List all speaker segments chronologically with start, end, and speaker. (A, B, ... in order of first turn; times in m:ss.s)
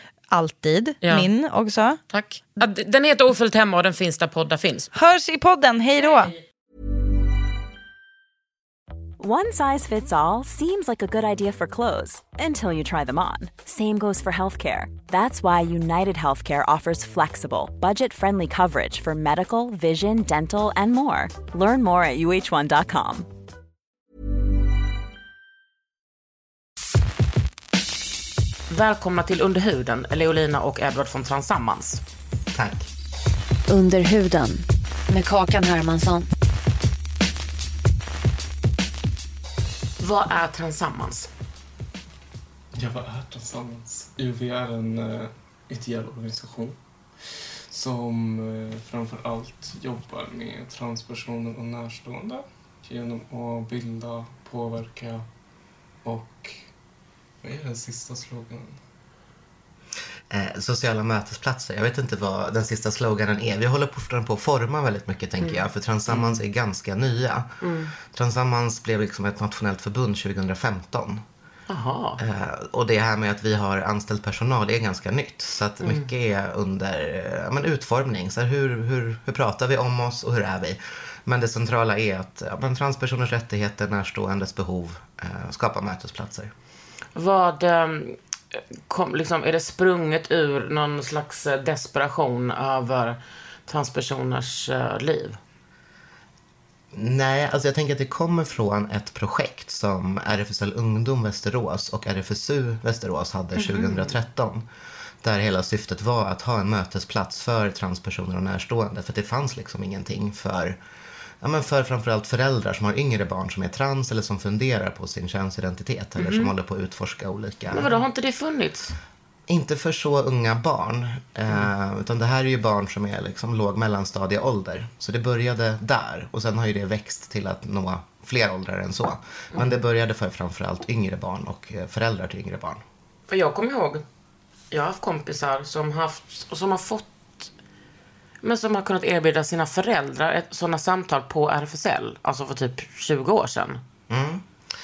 0:00.3-0:02.0 A
0:01.0-0:01.3 B
0:02.1-0:04.9 B
0:04.9-0:06.3 A
0:09.2-0:23.3 C
0:28.7-0:32.0 B
0:32.5-0:32.9 D
0:33.7-0:36.3 E
0:40.0-0:41.3 B
0:42.7-0:55.2 F
0:56.0-0:56.7 F
0:57.4-0:58.8 F
1:00.3-1:11.2 D
1:05.4-1:06.2 B
1:07.6-1:07.9 B
1:11.7-1:12.2 B
1:12.2-1:26.5 D
1:15.8-1:16.1 B
1:27.2-1:35.4 B
1:36.9-1:44.7 D
1:43.6-1:44.2 B
1:45.2-1:50.8 D
1:51.4-1:57.9 D
1:56.2-1:56.5 B
1:57.7-1:59.0 B
1:59.5-2:12.8 D
2:13.3-2:14.0 B
2:14.7-2:17.5 B
2:18.4-2:23.8 B
2:24.1-2:24.4 D